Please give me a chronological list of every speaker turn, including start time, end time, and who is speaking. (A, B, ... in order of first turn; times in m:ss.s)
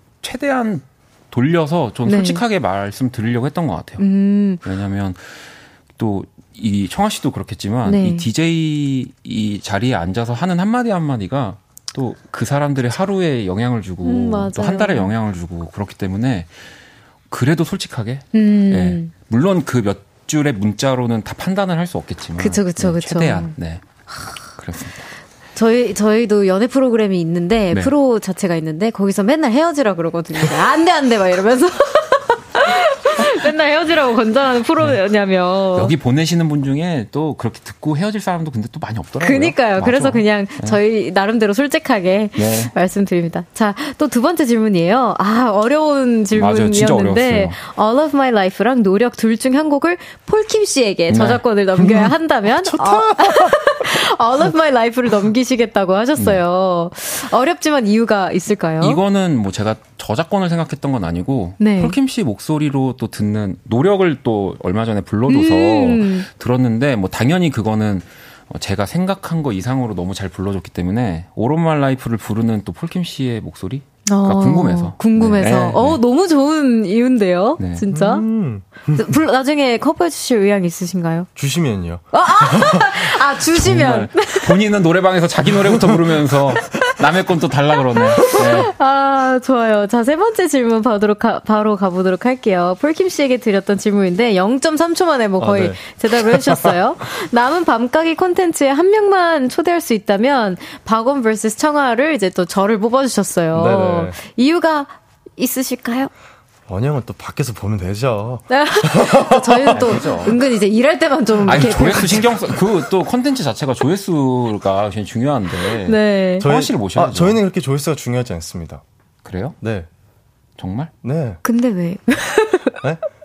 0:00.2-0:04.1 A
0:02.0-0:02.4 B
0:04.0-0:04.6 B
0:04.6-0:05.4 A
0:06.0-0:16.5 A
0:07.8-0:08.3 B
0:14.0-0:15.1 B
0:17.3-0:23.8 A
0:18.3-0:19.1 B
0:22.4-0:23.5 B
0:24.6-0:25.0 A
0:25.5-0:35.9 B
0:35.7-0:40.8 A
0:39.2-0:59.0 B
0:42.4-0:42.7 A
0:46.3-0:47.6 A
0:51.1-0:51.4 A
0:51.8-0:53.8 C
0:58.8-1:16.0 A
1:01.6-1:02.0 B
1:05.3-1:06.2 B
1:14.0-1:18.2 B
1:17.6-1:17.8 A
1:17.9-1:19.1 C
1:18.9-1:21.3 B
1:21.4-1:23.0 C
1:22.1-1:24.5 B
1:23.5-1:28.7 A
1:25.6-1:26.2 C
1:26.5-1:26.8 B
1:27.9-1:46.1 B
1:35.4-1:36.7 C
1:43.5-1:44.2 C
1:46.7-1:50.2 C
1:48.5-1:52.3 B
1:49.7-1:50.4 A
1:51.4-1:57.4 A
1:51.5-1:52.1 C
1:55.8-1:56.5 B
1:56.4-1:58.8 C
1:59.2-1:59.6 A
1:59.6-1:59.9 C
2:00.6-2:00.9 A
2:01.0-2:01.4 C
2:01.4-2:02.8 B